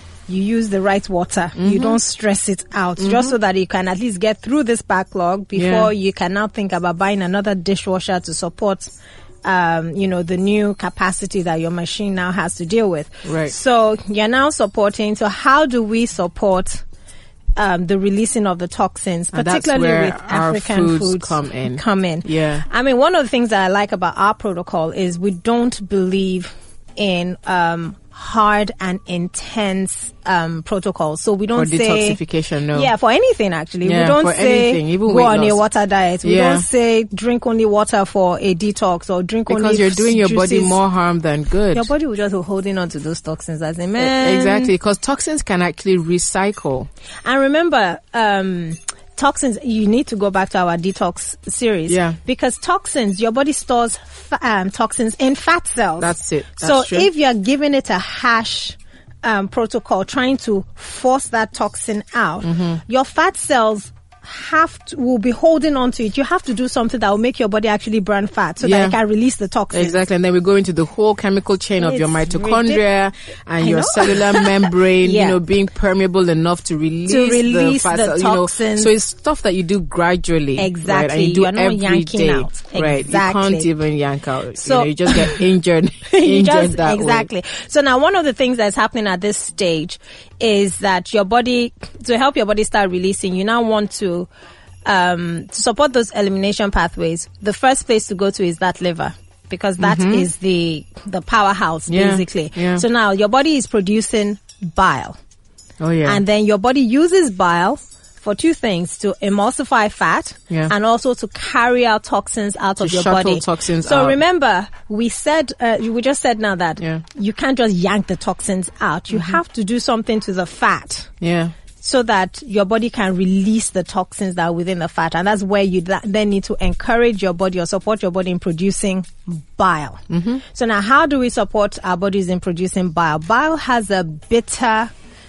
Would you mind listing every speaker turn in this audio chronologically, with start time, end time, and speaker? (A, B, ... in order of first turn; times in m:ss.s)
0:00.3-0:16.8 A
0:01.6-0:02.0 B
0:03.0-0:03.3 B
0:05.6-0:05.9 B
0:13.2-0:13.5 B
0:17.6-0:32.2 A
0:19.3-0:22.6 B
0:31.6-0:32.9 B
0:32.7-0:40.8 A
0:33.8-0:35.6 B
0:36.2-0:36.7 B
0:39.5-0:41.9 B
0:41.7-0:44.7 A
0:44.0-0:46.9 B
0:47.2-1:10.0 A
0:51.9-0:52.2 B
0:56.0-0:57.1 B
1:02.4-1:02.8 B
1:08.6-1:09.0 B
1:09.7-1:27.3 B
1:11.8-1:12.8 A
1:13.6-1:15.4 A
1:17.1-1:18.9 A
1:20.6-1:23.7 A
1:24.6-1:25.4 A
1:26.1-1:34.3 A
1:34.8-1:45.2 A
1:39.8-1:40.3 B
1:41.9-1:42.8 B
1:45.8-1:46.2 B
1:46.0-2:01.1 A
1:52.8-1:54.2 B
1:59.1-1:59.4 B
2:01.2-2:01.5 B
2:01.8-2:14.9 A
2:10.1-2:10.4 B